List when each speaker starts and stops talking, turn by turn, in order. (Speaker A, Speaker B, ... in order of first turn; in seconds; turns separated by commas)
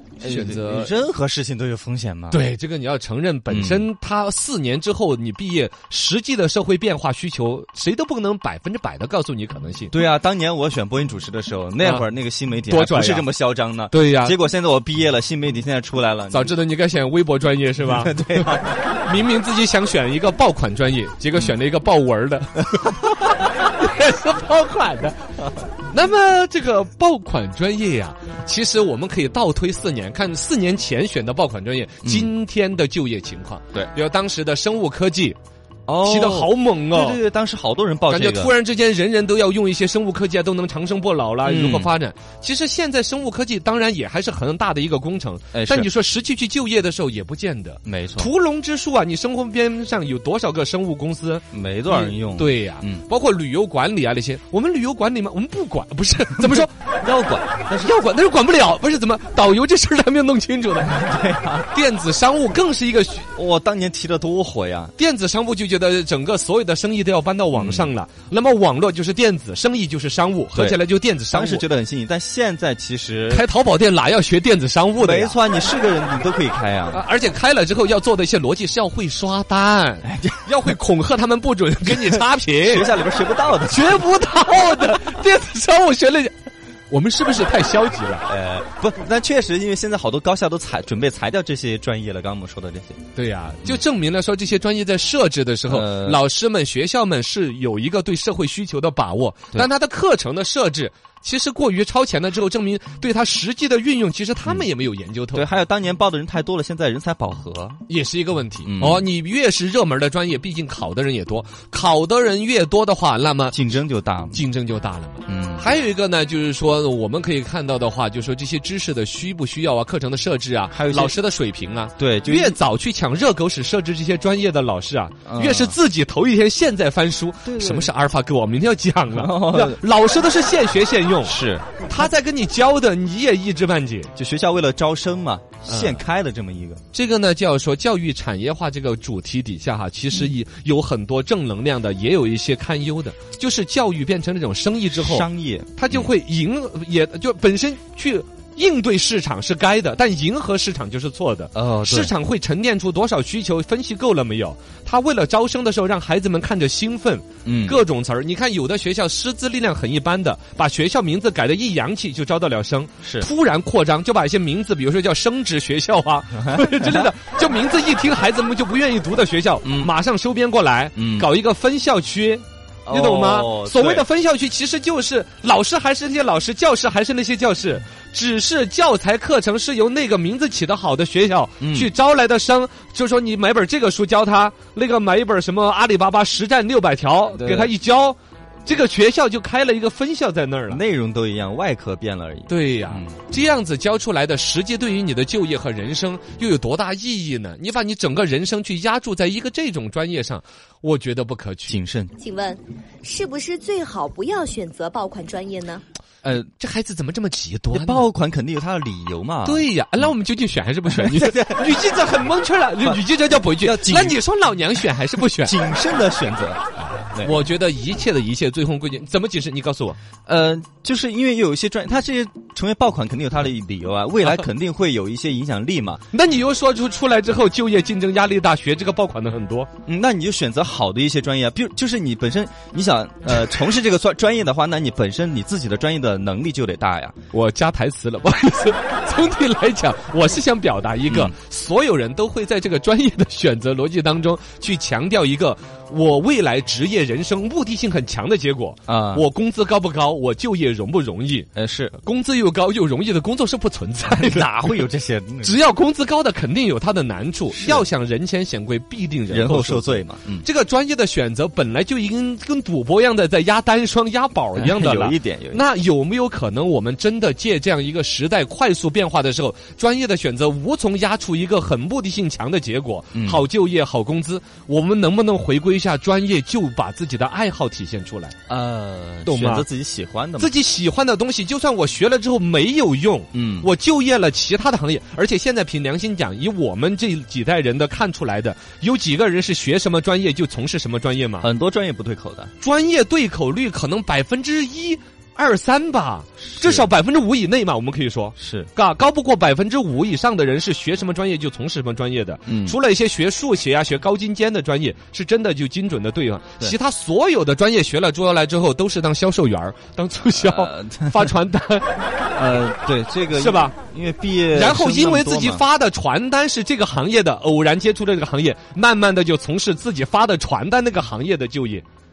Speaker A: 0.2-0.9, Speaker B: 0.2-2.4, Speaker A: 2.3-9.9, Speaker B: 3.5-3.9, Speaker B: 9.9-16.5, Speaker A: 11.8-12.1, Speaker A: 12.7-13.3, Speaker A: 13.9-14.3, Speaker A: 16.3-25.2, Speaker B: 17.8-18.7, Speaker A: 25.9-35.4, Speaker B: 32.0-32.3, Speaker B: 35.9-38.5, Speaker A: 36.0-37.2, Speaker A: 38.1-56.7, Speaker B: 41.4-41.9, Speaker B: 45.5-45.9, Speaker B: 47.9-48.3, Speaker B: 51.5-53.0, Speaker B: 56.4-57.9, Speaker A: 57.8-61.0, Speaker B: 60.9-61.7, Speaker A: 61.7-63.3, Speaker B: 63.3-64.9, Speaker A: 65.0-71.6, Speaker B: 67.5-67.9, Speaker B: 70.5-73.4, Speaker A: 73.3-75.3, Speaker B: 75.0-77.0, Speaker A: 76.9-82.9, Speaker B: 80.0-80.5, Speaker B: 82.1-84.0, Speaker A: 83.7-86.3, Speaker A: 86.9-88.3, Speaker B: 88.3-93.0, Speaker A: 93.2-105.5, Speaker B: 95.7-96.2, Speaker B: 105.3-107.8, Speaker A: 107.9-113.5, Speaker B: 108.7-109.0, Speaker B: 113.5-114.4, Speaker A: 114.3-134.1, Speaker B: 115.3-115.7, Speaker B: 120.7-121.2, Speaker B: 122.0-122.6, Speaker B: 125.2-125.8, Speaker B: 127.5-127.9, Speaker B: 129.1-129.8, Speaker B: 131.2-131.7, Speaker B: 134.2-136.8, Speaker A: 135.7-136.0, Speaker A: 136.9-190.8, Speaker B: 145.0-146.1, Speaker B: 151.5-152.1, Speaker B: 157.4-157.8, Speaker B: 163.0-163.3, Speaker B: 166.4-167.1, Speaker B: 169.6-169.9, Speaker B: 171.0-171.3, Speaker B: 172.8-174.1, Speaker B: 181.6-181.9, Speaker B: 187.3-187.7, Speaker B: 190.7-193.2, Speaker A: 192.5-201.8, Speaker B: 201.7-202.1, Speaker C: 202.2-205.8, Speaker B: 206.2-206.5, Speaker A: 206.6-208.1, Speaker B: 207.7-209.7, Speaker A: 209.4-215.5, Speaker B: 210.9-211.7, Speaker B: 212.8-214.2, Speaker B: 215.4-217.4, Speaker A: 217.0-220.0, Speaker B: 220.2-226.0, Speaker A: 226.1-229.7, Speaker B: 229.8-237.2, Speaker A: 237.3-251.5, Speaker B: 241.1-241.3, Speaker B: 248.9-249.2, Speaker B: 251.6-252.0, Speaker A: 252.0-254.5, Speaker B: 254.0-255.6, Speaker A: 255.4-278.4, Speaker B: 257.5-257.9, Speaker B: 259.3-260.5, Speaker B: 264.5-265.6, Speaker B: 273.1-273.4, Speaker B: 278.5-280.5, Speaker A: 279.2-279.6, Speaker A: 280.4-291.5, Speaker B: 283.3-283.7, Speaker B: 291.4-292.5, Speaker A: 292.6-311.9, Speaker B: 296.4-296.9, Speaker B: 298.4-298.7, Speaker B: 302.5-302.8, Speaker B: 310.3-311.3, Speaker B: 312.3-315.6, Speaker A: 313.3-313.8, Speaker A: 314.5-321.8